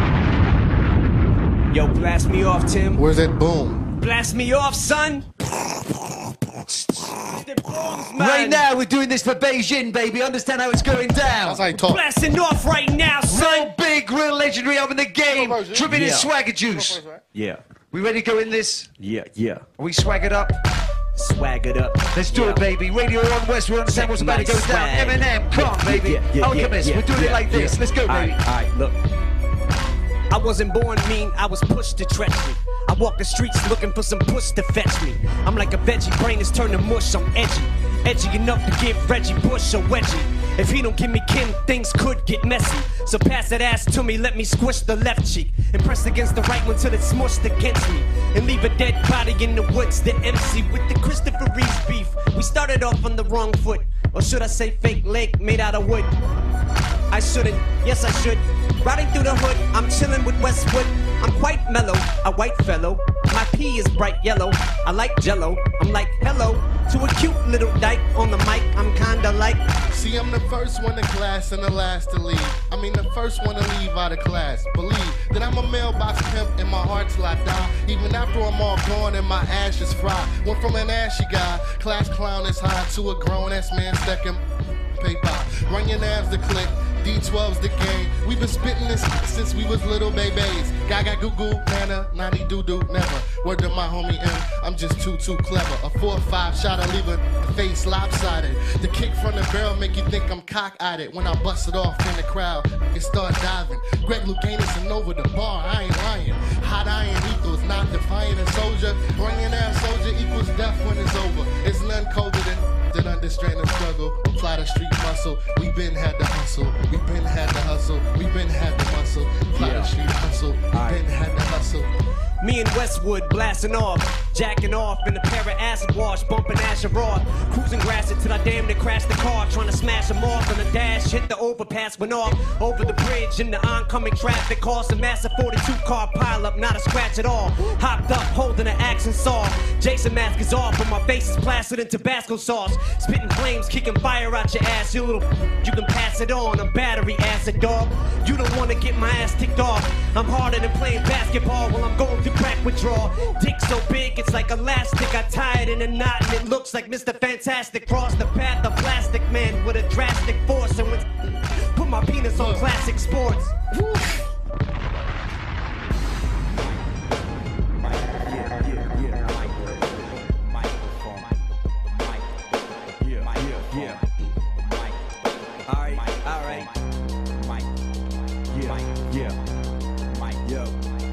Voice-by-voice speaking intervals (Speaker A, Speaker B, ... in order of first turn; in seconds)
Speaker A: 1.7-3.0, 4.0-5.3, 6.7-8.7, 11.8-13.7, 15.9-16.3, 17.3-17.6, 19.0-19.7, 21.1-22.7, 23.9-29.0, 30.3-56.1, 57.1-69.7, 119.5-119.9, 120.7-121.0, 122.4-163.6, 168.2-169.7, 173.0-174.0, 175.7-176.7, 178.5-179.4, 180.4-180.8
Speaker B: 3.0-3.8, 11.4-12.0, 15.3-15.9, 16.7-17.2, 69.9-84.4, 85.0-121.9, 162.3-162.7, 163.7-164.1
Speaker C: 8.2-11.6, 13.3-17.0, 17.9-18.9, 19.8-20.6, 22.1-28.4